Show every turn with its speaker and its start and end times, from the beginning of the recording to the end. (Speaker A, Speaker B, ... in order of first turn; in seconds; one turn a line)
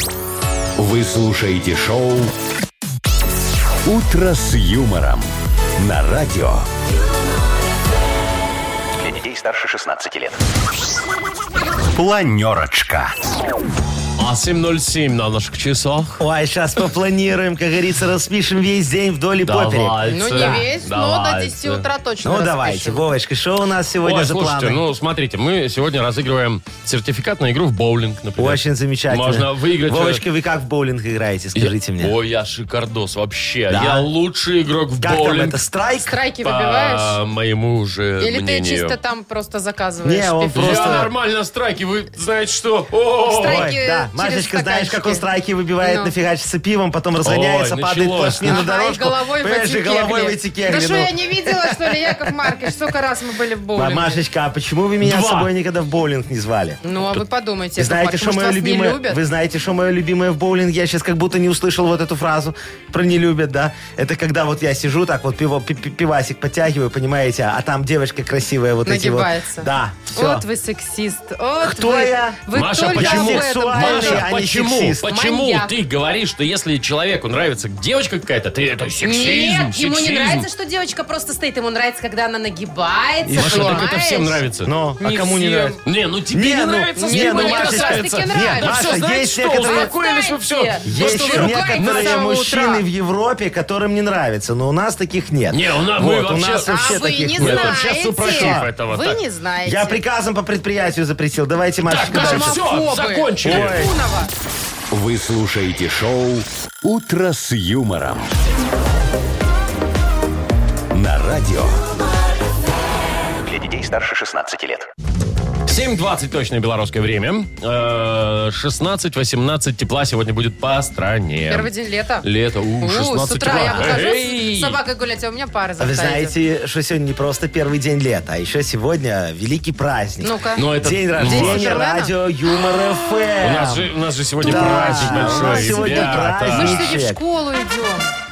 Speaker A: 0.8-2.3
Speaker A: 3.9-6.7
Speaker A: 9.0-10.4
Speaker A: 11.9-13.2
Speaker B: 14.2-16.2
Speaker C: 16.2-20.6
Speaker B: 19.4-21.9
Speaker D: 20.1-23.0
Speaker C: 22.2-24.8
Speaker B: 24.0-30.2
Speaker C: 28.4-32.2
Speaker B: 31.6-35.6
Speaker C: 33.7-34.1
Speaker C: 35.0-36.2
Speaker D: 36.0-37.2
Speaker B: 36.4-39.0
Speaker D: 38.2-41.1
Speaker C: 40.0-41.1
Speaker B: 40.6-43.7
Speaker D: 43.2-45.2
Speaker C: 43.4-52.2
Speaker D: 45.8-46.1
Speaker B: 47.2-48.6
Speaker D: 48.4-54.2
Speaker C: 53.8-56.8
Speaker B: 55.0-55.5
Speaker D: 56.8-59.2
Speaker C: 57.8-70.4
Speaker D: 68.8-74.2
Speaker C: 71.6-75.0
Speaker B: 72.5-80.5
Speaker D: 75.1-75.7
Speaker D: 79.0-84.4
Speaker C: 83.2-83.9
Speaker B: 83.4-92.3
Speaker C: 84.7-85.8
Speaker D: 85.0-85.7
Speaker C: 86.3-89.9
Speaker D: 87.0-92.8
Speaker C: 90.8-98.7
Speaker B: 95.5-99.2
Speaker D: 96.7-100.0
Speaker C: 99.7-102.6
Speaker B: 101.8-103.8
Speaker D: 102.1-104.3
Speaker C: 103.4-103.9
Speaker A: 104.9-108.3
Speaker A: 110.9-111.8
Speaker A: 113.4-114.9
Speaker B: 115.7-124.8
Speaker D: 121.5-122.3
Speaker D: 122.8-126.3
Speaker C: 123.7-124.0
Speaker C: 125.8-137.2
Speaker D: 130.2-130.7
Speaker B: 130.6-131.8
Speaker D: 131.2-132.1
Speaker B: 133.4-136.9
Speaker D: 134.4-138.1